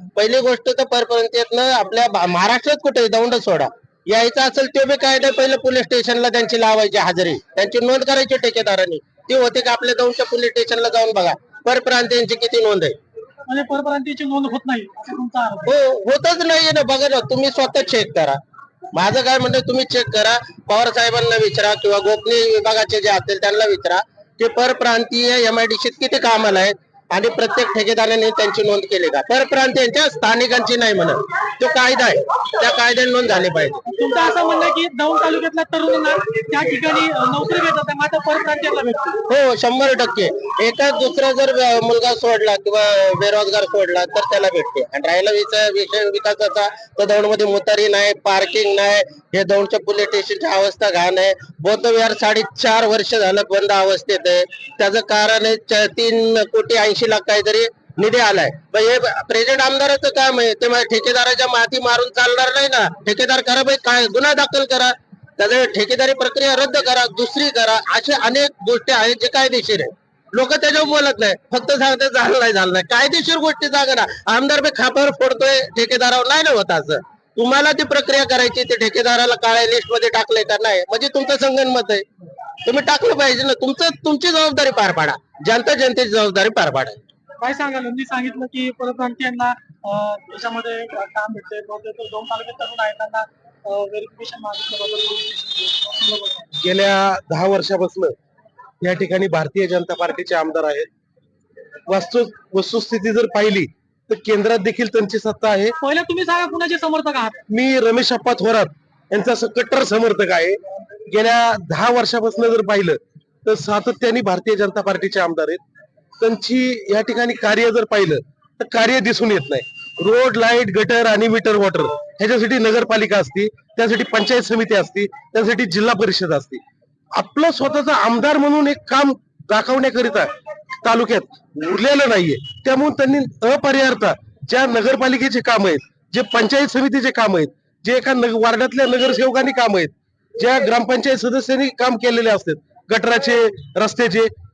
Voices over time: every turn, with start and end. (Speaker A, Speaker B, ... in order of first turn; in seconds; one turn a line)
Speaker A: 0.2-13.0
Speaker B: 13.5-15.7
Speaker A: 15.7-18.4
Speaker A: 18.9-33.8
Speaker B: 33.9-39.2
Speaker A: 39.3-82.0
Speaker A: 82.7-87.0
Speaker B: 87.4-96.5
Speaker C: 96.6-98.2
Speaker C: 98.8-100.9
Speaker C: 101.9-105.8
Speaker B: 105.8-107.4
Speaker C: 107.5-115.6
Speaker C: 116.2-126.6
Speaker C: 127.1-130.3
Speaker C: 130.8-144.3